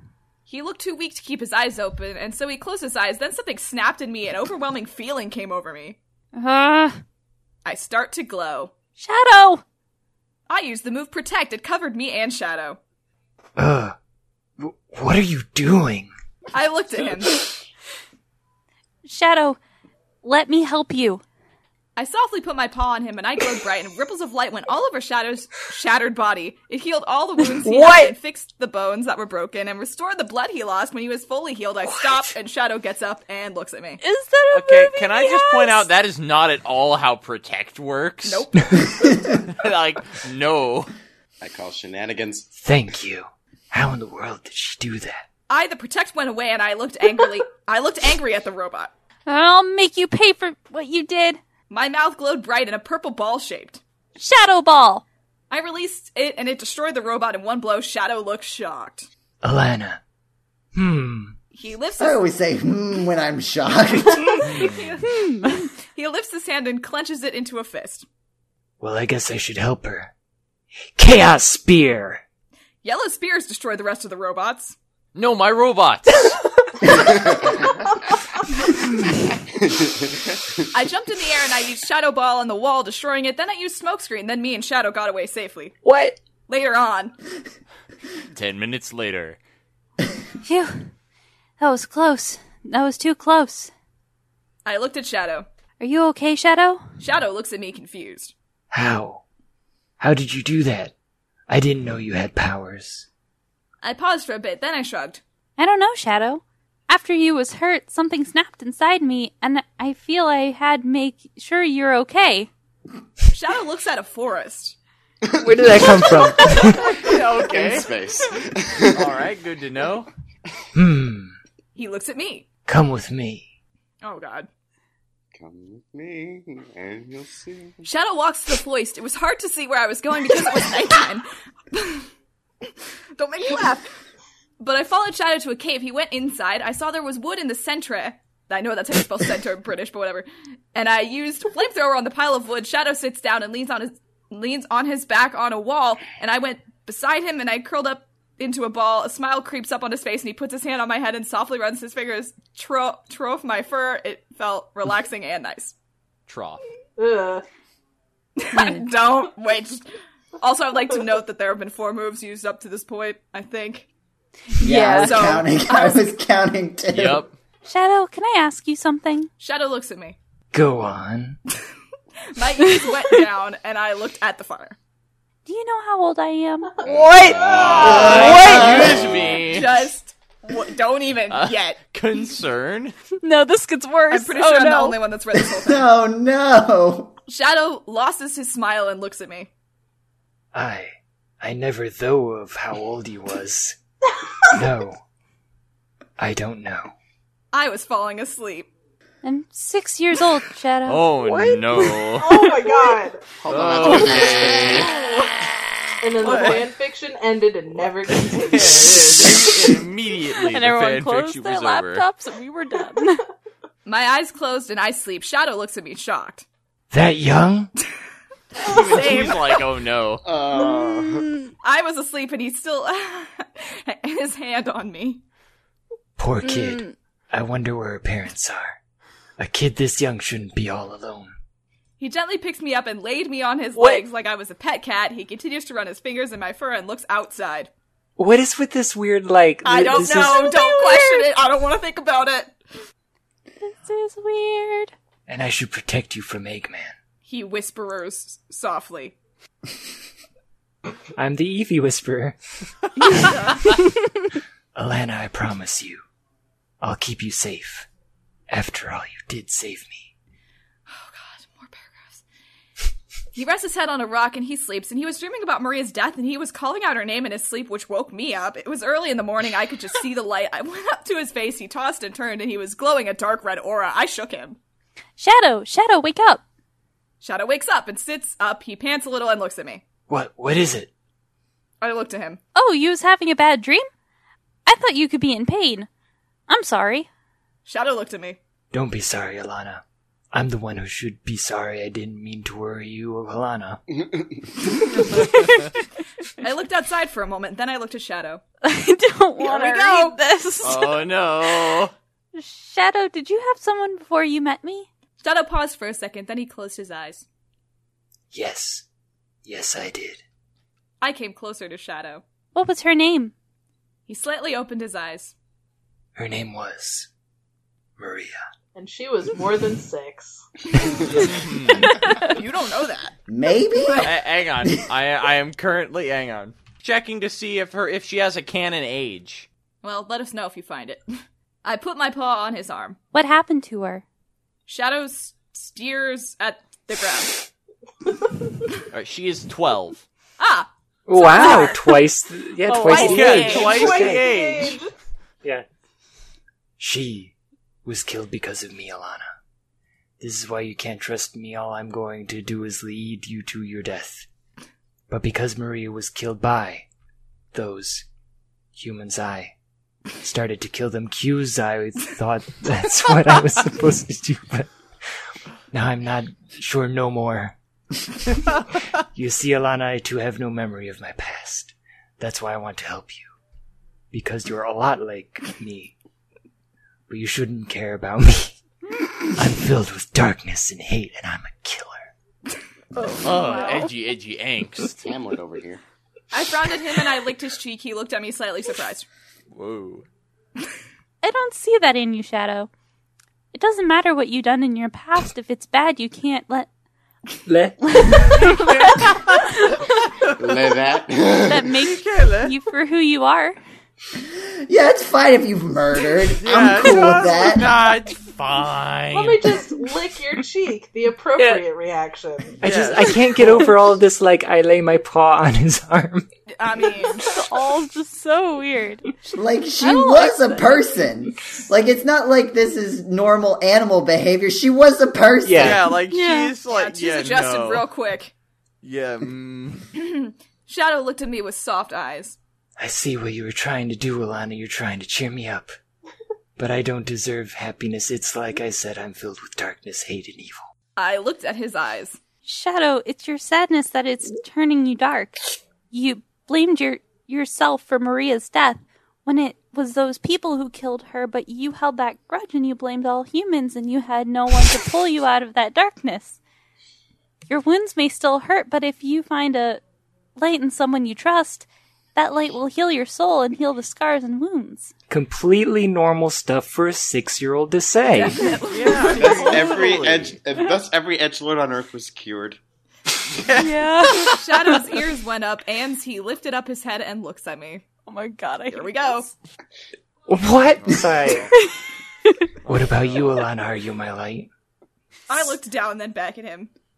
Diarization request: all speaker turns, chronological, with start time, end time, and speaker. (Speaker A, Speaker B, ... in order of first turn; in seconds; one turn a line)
Speaker A: 0.5-6.0
Speaker B: 6.3-7.0
Speaker A: 7.7-8.7
Speaker B: 9.0-9.6
Speaker A: 10.5-12.8
Speaker C: 13.6-14.0
Speaker C: 14.6-16.1
Speaker A: 16.5-17.4
Speaker B: 19.1-19.6
Speaker B: 20.2-21.2
Speaker A: 22.0-34.0
Speaker C: 27.7-28.0
Speaker B: 27.8-28.1
Speaker B: 34.0-35.9
Speaker D: 34.5-38.5
Speaker A: 38.2-39.0
Speaker D: 39.3-40.9
Speaker E: 41.4-42.5
Speaker C: 42.6-45.2
Speaker A: 45.5-48.9
Speaker B: 49.3-51.4
Speaker A: 51.7-53.8
Speaker B: 54.2-55.0
Speaker A: 55.5-59.1
Speaker C: 59.4-60.0
Speaker C: 60.7-61.4
Speaker A: 61.5-62.2
Speaker F: 62.0-64.7
Speaker A: 64.4-68.1
Speaker B: 65.0-65.7
Speaker C: 68.8-70.1
Speaker C: 71.0-72.2
Speaker A: 72.8-74.8
Speaker D: 75.2-76.4
Speaker E: 77.0-77.6
Speaker E: 79.6-80.1
Speaker A: 80.7-85.8
Speaker C: 85.8-86.2
Speaker A: 86.5-87.2
Speaker D: 88.3-89.4
Speaker B: 90.5-90.8
Speaker B: 91.6-93.7
Speaker A: 94.7-95.5
Speaker B: 95.8-96.8
Speaker A: 97.0-98.3
Speaker C: 98.7-99.2
Speaker C: 100.0-100.9
Speaker C: 101.5-103.1
Speaker A: 103.8-105.2
Speaker B: 105.6-112.5
Speaker A: 113.3-114.8
Speaker E: 115.3-116.1
Speaker C: 115.4-117.0
Speaker E: 116.8-119.2
Speaker D: 116.8-117.9
Speaker D: 118.9-120.1
Speaker C: 120.7-121.4
Speaker A: 121.8-122.5
Speaker C: 122.7-123.5
Speaker A: 124.0-124.5
Speaker E: 125.3-127.8
Speaker A: 127.8-132.1
Speaker A: 133.2-133.9
Speaker A: 134.6-155.7
Speaker D: 156.3-156.6
Speaker G: 157.0-157.4
Speaker A: 158.4-159.9
Speaker B: 158.5-158.8
Speaker A: 160.4-163.9
Speaker B: 164.6-165.4
Speaker F: 164.6-167.2
Speaker A: 164.9-166.2
Speaker D: 166.9-167.3
Speaker B: 167.7-169.3
Speaker A: 169.4-170.2
Speaker C: 170.5-171.4
Speaker A: 172.3-174.8
Speaker B: 175.5-178.7
Speaker E: 176.8-179.3
Speaker G: 176.8-178.0
Speaker D: 177.2-179.9
Speaker F: 177.8-179.2
Speaker A: 179.4-181.8
Speaker D: 181.3-183.0
Speaker B: 183.2-185.0
Speaker A: 184.1-185.9
Speaker F: 185.4-187.2
Speaker A: 187.3-189.5
Speaker C: 190.5-193.8
Speaker C: 194.5-195.0
Speaker C: 196.2-196.9
Speaker A: 197.5-198.7
Speaker B: 199.2-202.1
Speaker D: 200.9-202.5
Speaker G: 202.1-203.2
Speaker E: 203.4-204.9
Speaker D: 203.5-204.9
Speaker G: 205.0-205.2
Speaker G: 206.0-209.8
Speaker D: 206.2-206.7
Speaker D: 208.1-212.1
Speaker B: 210.4-213.2
Speaker A: 213.9-216.5
Speaker C: 216.9-217.7
Speaker D: 218.6-220.2
Speaker A: 218.7-219.5
Speaker E: 220.2-221.3
Speaker B: 220.6-221.5
Speaker A: 221.6-225.2
Speaker C: 226.2-228.8
Speaker B: 226.4-226.9
Speaker C: 229.4-231.3
Speaker A: 232.0-237.7
Speaker B: 233.8-234.0
Speaker C: 238.2-240.5
Speaker A: 239.6-242.6
Speaker B: 240.0-241.3
Speaker B: 243.6-244.9
Speaker C: 245.3-246.9
Speaker A: 247.3-249.2
Speaker C: 251.2-252.4
Speaker A: 253.1-253.6
Speaker C: 254.7-256.0
Speaker C: 256.8-257.9
Speaker C: 258.5-260.1
Speaker A: 260.9-262.2
Speaker A: 263.3-274.6
Speaker B: 275.2-276.4
Speaker A: 277.2-279.8
Speaker C: 280.1-280.9
Speaker A: 281.8-282.4
Speaker B: 282.6-283.9
Speaker B: 284.7-285.9
Speaker B: 286.5-287.1
Speaker A: 287.7-288.4
Speaker C: 288.7-293.8
Speaker E: 293.9-294.4
Speaker D: 295.2-295.6
Speaker A: 296.4-298.4
Speaker B: 298.6-301.0
Speaker A: 299.4-300.2
Speaker D: 300.6-301.9
Speaker B: 302.4-304.9
Speaker A: 305.2-307.2
Speaker C: 308.3-308.9
Speaker C: 309.4-310.2
Speaker A: 311.0-312.2
Speaker B: 312.6-313.3
Speaker A: 314.1-315.4
Speaker C: 316.2-317.1
Speaker C: 318.0-318.4
Speaker G: 318.8-320.5
Speaker E: 320.8-321.2
Speaker D: 321.1-322.0
Speaker A: 321.9-323.2
Speaker F: 323.3-324.1
Speaker A: 323.8-324.1
Speaker D: 324.0-329.5
Speaker A: 329.8-331.0
Speaker A: 331.6-333.0
Speaker B: 333.1-334.0
Speaker A: 334.7-337.4
Speaker D: 338.9-340.0
Speaker A: 340.4-341.8
Speaker C: 341.1-344.3
Speaker B: 341.2-341.9
Speaker B: 342.7-343.7
Speaker D: 342.9-344.8
Speaker A: 342.9-343.4
Speaker G: 343.3-344.9
Speaker C: 346.8-347.3
Speaker C: 347.9-349.3
Speaker C: 350.2-354.3
Speaker C: 355.1-356.9
Speaker C: 357.5-358.1
Speaker C: 358.8-359.5
Speaker C: 360.2-364.7
Speaker C: 365.7-367.6
Speaker C: 369.1-373.3
Speaker C: 374.1-375.9
Speaker C: 377.1-378.6
Speaker C: 379.3-382.1
Speaker B: 383.0-383.9
Speaker D: 383.2-385.1
Speaker E: 385.0-385.8
Speaker A: 386.3-389.1
Speaker D: 389.5-390.1
Speaker B: 391.2-392.7
Speaker B: 393.5-396.7
Speaker C: 397.5-398.3
Speaker B: 398.1-399.2
Speaker D: 398.1-400.4
Speaker E: 400.4-401.7
Speaker B: 401.4-403.6
Speaker D: 401.8-402.6
Speaker F: 404.7-407.8
Speaker D: 406.4-409.6
Speaker E: 406.5-406.8
Speaker G: 409.1-412.6
Speaker C: 411.4-411.6
Speaker C: 412.6-416.3
Speaker D: 412.6-413.2
Speaker A: 416.6-417.2
Speaker B: 417.2-419.1
Speaker F: 419.2-425.9
Speaker B: 419.8-421.0
Speaker C: 425.4-425.8
Speaker D: 425.6-427.8
Speaker B: 426.1-426.5
Speaker A: 426.7-428.3
Speaker D: 428.8-429.9
Speaker A: 429.9-432.4
Speaker C: 432.8-435.8
Speaker C: 436.6-440.6
Speaker A: 441.0-442.2
Speaker B: 442.4-456.4
Speaker B: 457.5-459.8
Speaker B: 460.4-464.9
Speaker C: 465.1-468.4
Speaker A: 468.2-469.6
Speaker B: 468.4-469.7
Speaker D: 468.7-470.4
Speaker E: 469.1-472.6
Speaker D: 473.4-473.7
Speaker B: 473.5-474.8
Speaker A: 474.2-477.9
Speaker B: 478.1-479.3
Speaker A: 478.7-479.3
Speaker C: 480.3-481.5
Speaker D: 480.8-481.5
Speaker D: 482.6-483.4
Speaker C: 482.7-484.5
Speaker A: 485.3-486.7